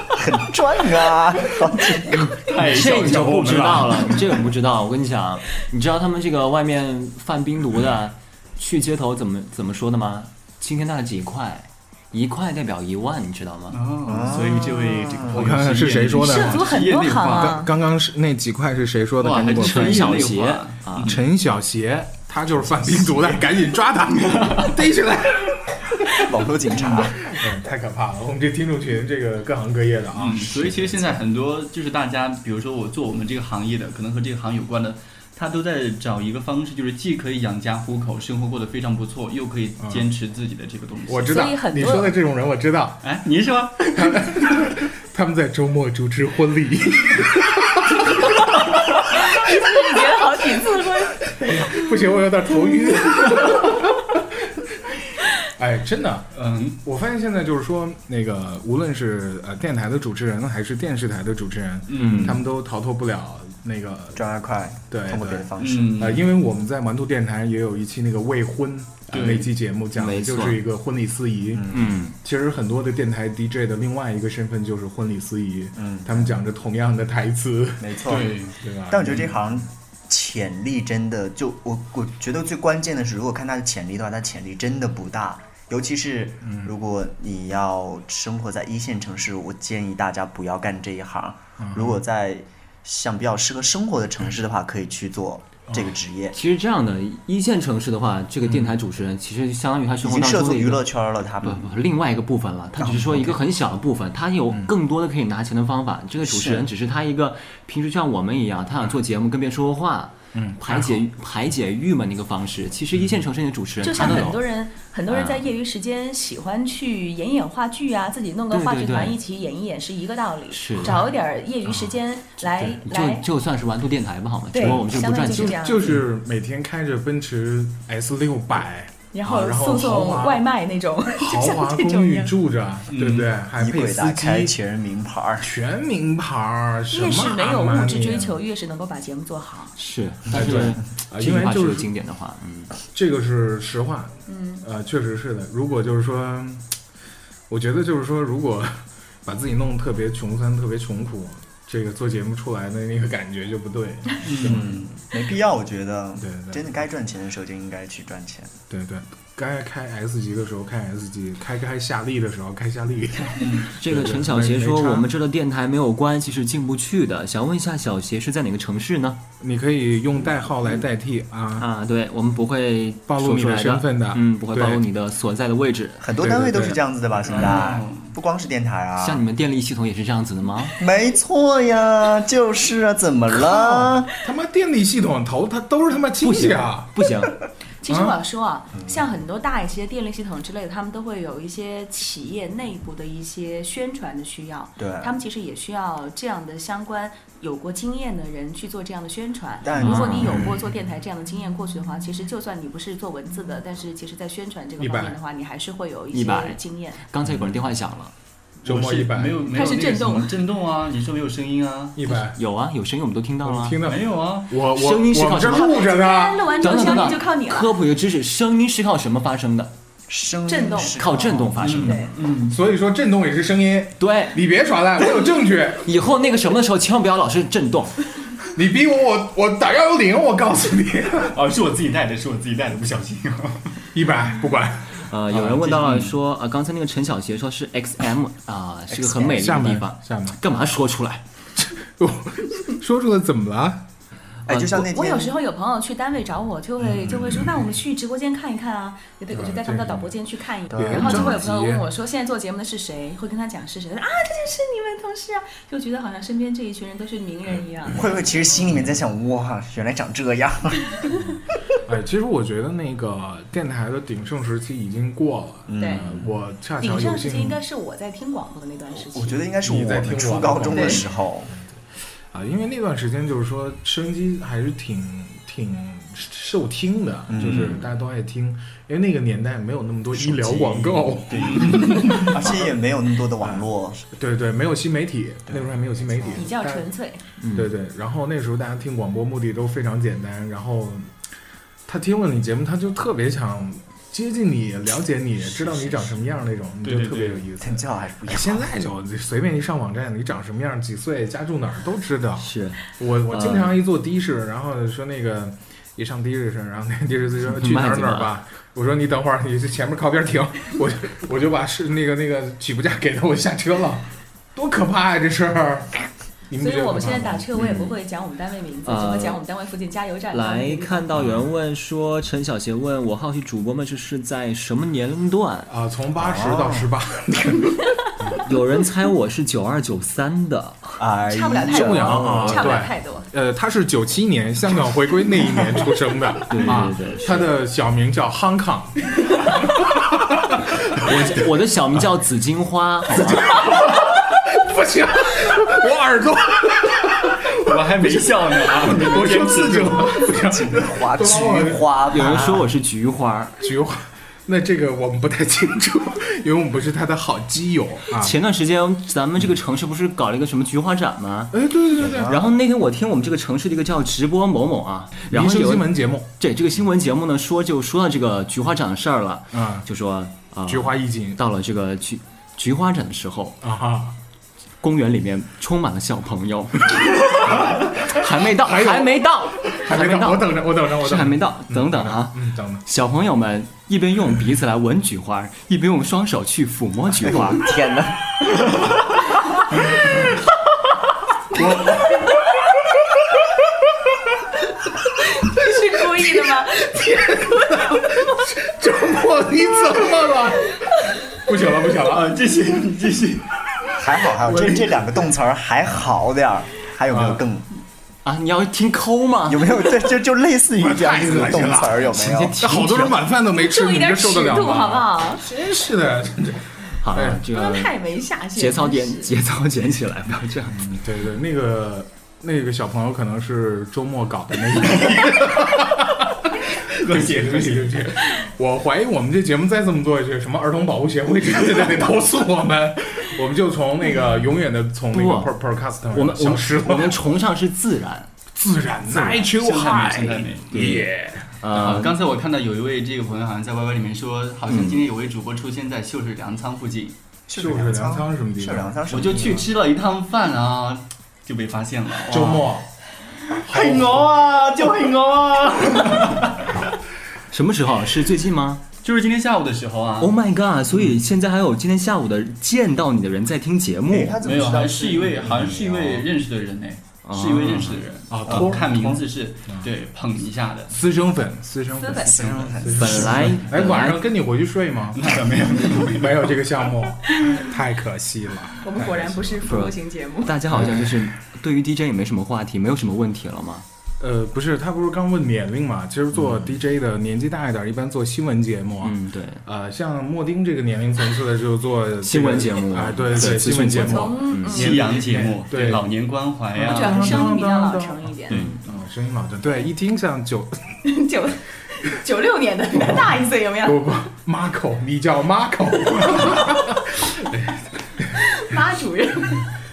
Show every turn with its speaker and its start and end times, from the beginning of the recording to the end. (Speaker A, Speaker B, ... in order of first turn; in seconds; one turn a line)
Speaker A: 0.2-2.3
Speaker B: 1.8-4.3
Speaker C: 2.5-13.8
Speaker D: 3.4-3.7
Speaker B: 13.7-17.6
Speaker A: 14.1-15.4
Speaker D: 15.3-20.2
Speaker E: 16.2-17.7
Speaker B: 19.2-21.2
Speaker C: 19.6-21.2
Speaker D: 21.0-25.9
Speaker B: 24.1-24.8
Speaker A: 26.1-27.3
Speaker D: 26.7-31.1
Speaker B: 30.1-41.4
Speaker D: 39.8-40.0
Speaker D: 41.1-43.0
Speaker E: 41.3-42.1
Speaker B: 43.0-44.7
Speaker D: 43.9-48.5
Speaker E: 49.1-51.2
Speaker D: 51.2-54.6
Speaker D: 55.4-56.3
Speaker B: 56.3-56.8
Speaker D: 56.8-64.2
Speaker B: 61.9-62.4
Speaker C: 62.0-62.4
Speaker A: 64.1-66.1
Speaker D: 64.9-79.7
Speaker B: 65.6-66.3
Speaker B: 69.1-69.5
Speaker C: 69.9-70.6
Speaker A: 71.5-72.0
Speaker C: 71.7-72.1
Speaker A: 75.8-76.3
Speaker A: 77.8-78.3
Speaker B: 78.0-78.5
Speaker A: 78.9-96.3
Speaker D: 86.4-86.7
Speaker D: 91.6-92.0
Speaker D: 95.7-96.0
Speaker C: 96.3-100.8
Speaker D: 98.4-98.8
Speaker A: 100.0-101.7
Speaker C: 101.4-114.4
Speaker A: 102.8-103.4
Speaker A: 106.2-106.7
Speaker D: 110.3-111.0
Speaker E: 113.8-123.2
Speaker C: 115.1-115.5
Speaker C: 118.5-119.2
Speaker C: 120.5-121.1
Speaker C: 122.5-125.7
Speaker E: 124.5-125.9
Speaker D: 124.6-130.4
Speaker E: 129.1-132.3
Speaker D: 131.2-134.6
Speaker B: 132.9-133.3
Speaker A: 133.6-135.5
Speaker D: 135.4-138.4
Speaker E: 136.9-139.8
Speaker C: 139.8-142.7
Speaker D: 140.3-141.9
Speaker D: 142.9-146.7
Speaker E: 144.3-144.6
Speaker D: 147.5-154.8
Speaker B: 154.2-154.8
Speaker A: 154.4-158.5
Speaker D: 156.2-156.8
Speaker D: 158.7-165.1
Speaker B: 163.4-163.7
Speaker C: 163.7-169.2
Speaker D: 169.4-171.7
Speaker C: 171.6-176.1
Speaker D: 173.1-174.8
Speaker A: 176.0-179.2
Speaker D: 176.1-176.8
Speaker B: 177.3-178.1
Speaker C: 179.0-180.8
Speaker A: 180.8-184.1
Speaker D: 183.3-187.0
Speaker C: 186.2-187.3
Speaker E: 187.8-207.0
Speaker D: 187.9-188.2
Speaker A: 188.7-189.1
Speaker A: 194.8-195.2
Speaker A: 199.6-200.5
Speaker C: 199.8-200.5
Speaker D: 204.8-205.2
Speaker C: 206.1-208.1
Speaker D: 208.6-209.5
Speaker B: 208.6-211.9
Speaker E: 209.5-210.3
Speaker D: 211.9-212.4
Speaker C: 212.0-213.8
Speaker D: 213.4-216.6
Speaker B: 213.8-214.5
Speaker C: 214.6-215.7
Speaker E: 215.4-217.7
Speaker C: 216.5-219.7
Speaker A: 220.1-221.8
Speaker E: 220.5-221.0
Speaker C: 220.9-222.1
Speaker B: 221.6-222.6
Speaker E: 221.8-222.1
Speaker D: 222.5-225.9
Speaker C: 224.0-224.4
Speaker C: 225.8-228.0
Speaker D: 228.5-231.4
Speaker B: 231.3-233.8
Speaker D: 233.9-235.1
Speaker C: 235.0-241.2
Speaker B: 235.3-236.1
Speaker A: 238.9-239.4
Speaker D: 239.3-240.4
Speaker D: 241.6-243.9
Speaker C: 244.5-244.9
Speaker A: 244.5-245.3
Speaker E: 244.8-258.1
Speaker D: 246.8-247.6
Speaker D: 249.3-250.1
Speaker A: 250.7-251.4
Speaker D: 250.7-251.9
Speaker A: 257.8-261.2
Speaker D: 261.8-267.6
Speaker A: 265.7-266.3
Speaker E: 265.8-266.0
Speaker E: 266.8-269.5
Speaker A: 268.9-271.5
Speaker D: 269.6-271.6
Speaker E: 270.7-271.0
Speaker D: 272.3-282.7
Speaker A: 277.3-277.9
Speaker A: 280.1-284.0
Speaker B: 281.3-282.4
Speaker D: 283.4-286.9
Speaker A: 285.5-286.4
Speaker E: 286.4-287.2
Speaker C: 287.4-287.7
Speaker D: 287.5-291.1
Speaker D: 291.9-317.5
Speaker A: 295.6-295.9
Speaker B: 296.8-297.4
Speaker A: 297.6-298.7
Speaker C: 302.4-303.7
Speaker C: 307.5-308.3
Speaker E: 316.6-321.1
Speaker C: 317.6-317.9
Speaker C: 318.8-319.4
Speaker C: 320.3-325.7
Speaker D: 325.7-328.4
Speaker A: 326.2-326.9
Speaker C: 328.4-331.0
Speaker A: 331.0-332.9
Speaker E: 331.3-333.3
Speaker D: 331.7-341.4
Speaker A: 335.6-335.9
Speaker C: 336.5-337.5
Speaker C: 341.0-343.6
Speaker D: 343.1-351.9
Speaker B: 347.6-350.3
Speaker A: 350.3-352.7
Speaker C: 352.1-353.6
Speaker D: 353.6-358.4
Speaker C: 358.1-373.6
Speaker D: 361.5-362.5
Speaker D: 365.3-366.3
Speaker D: 369.5-369.9
Speaker D: 370.7-371.4
Speaker D: 373.6-374.2
Speaker C: 374.8-387.8
Speaker D: 377.6-382.9
Speaker A: 387.2-388.7
Speaker D: 391.5-392.4
Speaker E: 395.3-397.0
Speaker D: 395.8-402.4
Speaker B: 402.0-403.5
Speaker A: 404.0-407.7
Speaker D: 404.4-404.9
Speaker D: 407.1-407.4
Speaker C: 408.2-409.9
Speaker A: 409.5-412.9
Speaker D: 410.8-417.4
Speaker E: 413.5-415.6
Speaker C: 417.0-417.9
Speaker E: 417.5-419.3
Speaker C: 418.5-420.9
Speaker D: 420.7-437.2
Speaker B: 425.0-425.3
Speaker B: 426.8-428.1
Speaker C: 435.1-435.5
Speaker C: 436.1-438.3
Speaker D: 438.5-441.5
Speaker C: 439.1-439.5
Speaker B: 439.5-440.9
Speaker C: 440.7-442.1
Speaker B: 441.7-447.1
Speaker C: 444.7-445.0
Speaker A: 447.5-449.7
Speaker D: 447.5-449.6
Speaker B: 449.1-452.8
Speaker D: 452.3-452.9
Speaker B: 453.6-456.7
Speaker D: 453.6-454.3
Speaker C: 457.5-458.8
Speaker B: 459.0-460.4
Speaker C: 460.2-464.4
Speaker A: 464.1-466.3
Speaker B: 464.4-471.0
Speaker C: 467.2-468.0
Speaker D: 468.3-469.9
Speaker D: 470.9-475.3
Speaker E: 472.0-472.4
Speaker A: 472.2-473.6
Speaker C: 472.9-474.2
Speaker B: 475.1-476.6
Speaker D: 475.9-479.7
Speaker E: 478.8-480.6
Speaker C: 479.6-483.8
Speaker D: 480.7-481.2
Speaker D: 484.2-496.1
Speaker C: 486.3-486.8
Speaker C: 489.0-489.6
Speaker C: 492.2-495.0
Speaker E: 493.7-494.9
Speaker B: 494.7-497.4
Speaker D: 496.7-500.9
Speaker E: 496.9-498.6
Speaker C: 498.5-498.8
Speaker E: 501.0-504.1
Speaker D: 503.0-508.4
Speaker E: 508.4-509.6